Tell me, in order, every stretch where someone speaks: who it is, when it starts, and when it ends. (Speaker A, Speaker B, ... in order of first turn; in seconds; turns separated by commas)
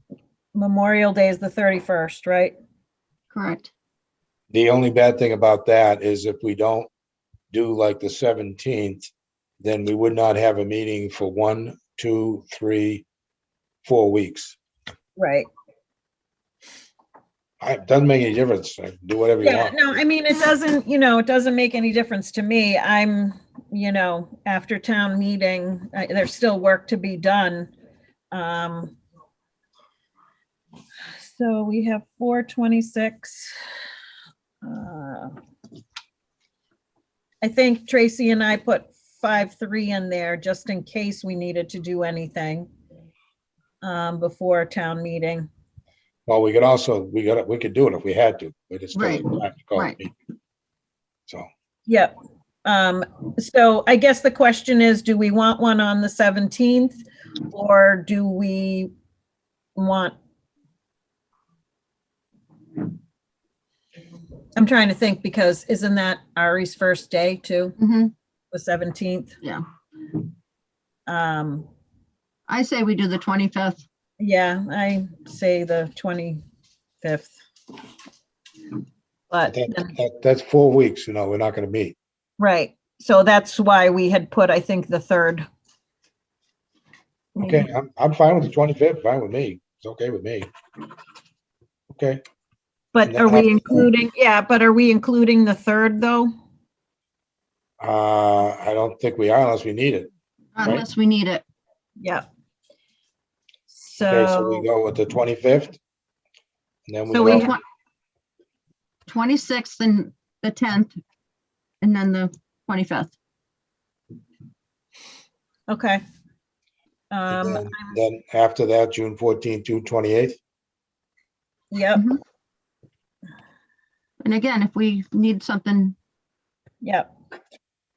Speaker A: 0.5-2.5, Speaker B: 3.3-3.7, Speaker C: 4.5-6.9, Speaker C: 7.5-9.1, Speaker C: 9.6-13.0, Speaker C: 13.8-14.6, Speaker A: 15.2-15.5, Speaker C: 17.6-19.9, Speaker A: 19.4-27.7, Speaker A: 28.3-29.0, Speaker A: 31.2-33.5, Speaker A: 34.6-35.3, Speaker A: 37.4-42.7, Speaker A: 43.8-45.5, Speaker C: 46.3-50.1, Speaker B: 48.9-50.0, Speaker A: 51.9-52.1, Speaker A: 52.6-58.9, Speaker A: 59.8-60.1, Speaker A: 64.5-67.8, Speaker B: 67.8-68.1, Speaker A: 68.5-69.3, Speaker A: 71.1-71.7, Speaker B: 72.5-73.8, Speaker A: 74.2-76.4, Speaker A: 77.0-77.3, Speaker A: 79.3-79.9, Speaker C: 79.5-82.0, Speaker A: 82.4-85.5, Speaker A: 87.4-87.7, Speaker C: 87.4-90.5, Speaker C: 91.9-92.2, Speaker A: 92.9-96.3, Speaker C: 93.0-93.9, Speaker C: 97.8-100.1, Speaker B: 100.6-101.4, Speaker A: 103.7-104.7, Speaker C: 104.0-105.8, Speaker C: 106.9-107.5, Speaker A: 107.1-107.5, Speaker B: 107.2-107.6, Speaker B: 109.1-111.0, Speaker B: 111.8-113.1, Speaker A: 115.7-116.0, Speaker A: 117.1-118.0, Speaker C: 117.3-120.4, Speaker A: 121.7-122.1, Speaker B: 124.2-125.9, Speaker A: 126.8-127.1